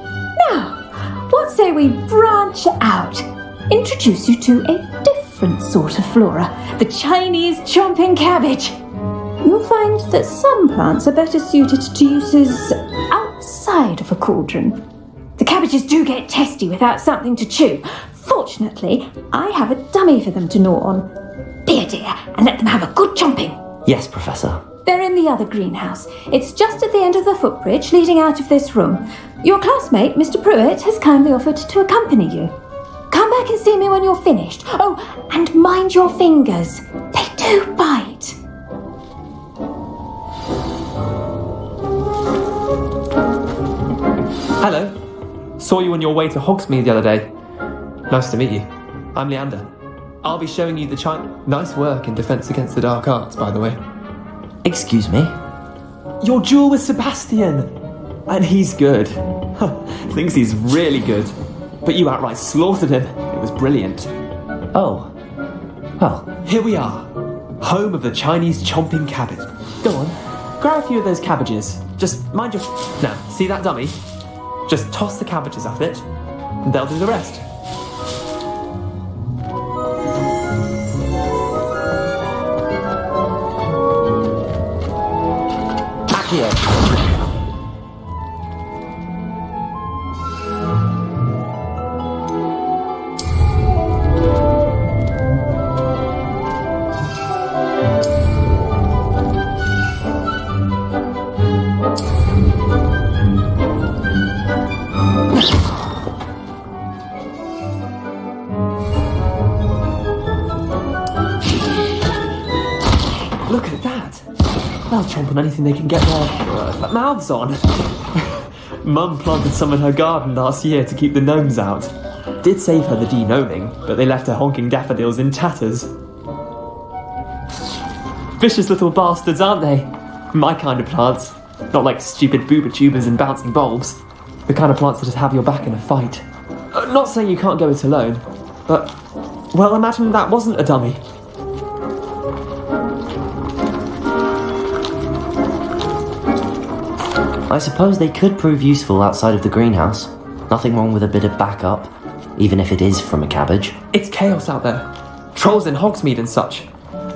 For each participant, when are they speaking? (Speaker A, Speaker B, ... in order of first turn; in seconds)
Speaker A: 0.4-8.8, 9.4-14.8, 15.4-21.1, 21.7-23.6, 24.9-32.5, 33.1-38.4
Speaker B: 23.9-24.6, 54.6-55.3, 64.7-65.1, 66.0-66.3, 86.1-86.7, 147.5-153.8
Speaker C: 44.6-45.0, 45.6-47.3, 48.1-49.7, 50.2-53.8, 56.2-57.7, 58.3-61.3, 61.8-64.1, 66.5-67.1, 67.6-74.0, 74.7-76.0, 76.6-77.5, 113.5-114.3, 114.9-121.9, 122.4-125.9, 128.4-138.9, 139.5-141.0, 153.9-156.7